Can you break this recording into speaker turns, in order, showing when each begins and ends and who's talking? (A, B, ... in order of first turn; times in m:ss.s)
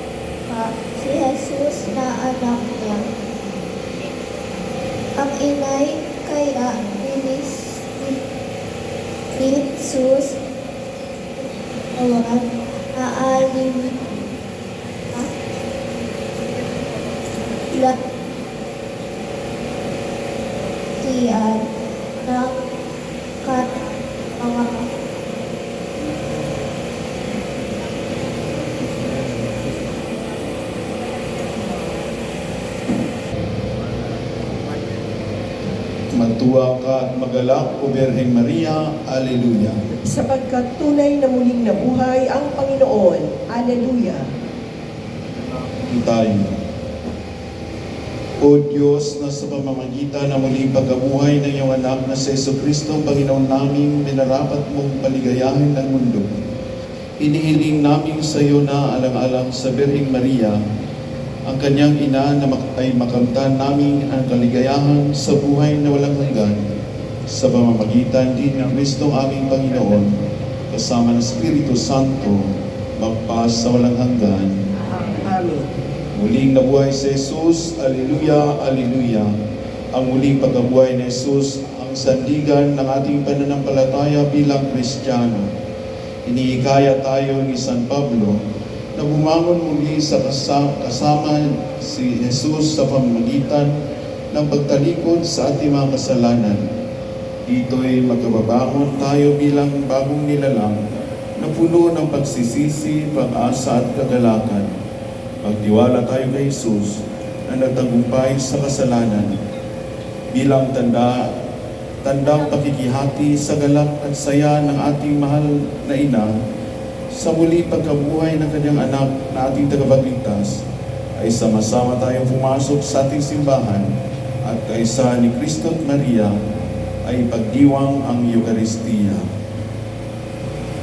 0:00.5-0:03.0 A
0:05.2-0:08.2 A
0:09.4-0:10.4 A
0:12.0-0:13.9 A
0:21.0-0:21.6 A
0:22.2-0:22.5 A
0:24.4-0:24.8 A
0:36.2-0:39.8 B
0:40.0-0:44.2 C
0:45.8-0:46.4 B
0:48.4-0:56.3 B
0:57.2-1:00.6 B
1:01.5-1:06.6 B
1:07.3-1:10.1 B
1:10.7-1:12.4 B
1:13.0-1:14.5 B
1:15.2-1:15.6 C
1:16.2-1:19.3 B
1:19.9-1:25.5 B
1:26.3-1:28.4 B
1:29.0-1:33.7 B
1:34.3-1:36.6 B
1:37.5-1:40.8 B
1:41.4-1:44.7 B
1:45.4-1:49.4 B
1:50.3-1:51.3 B
1:52.0-1:56.3 B
1:57.1-2:00.6 B
2:01.2-2:03.9 B
2:04.4-2:06.3 B
2:07.1-2:09.2 B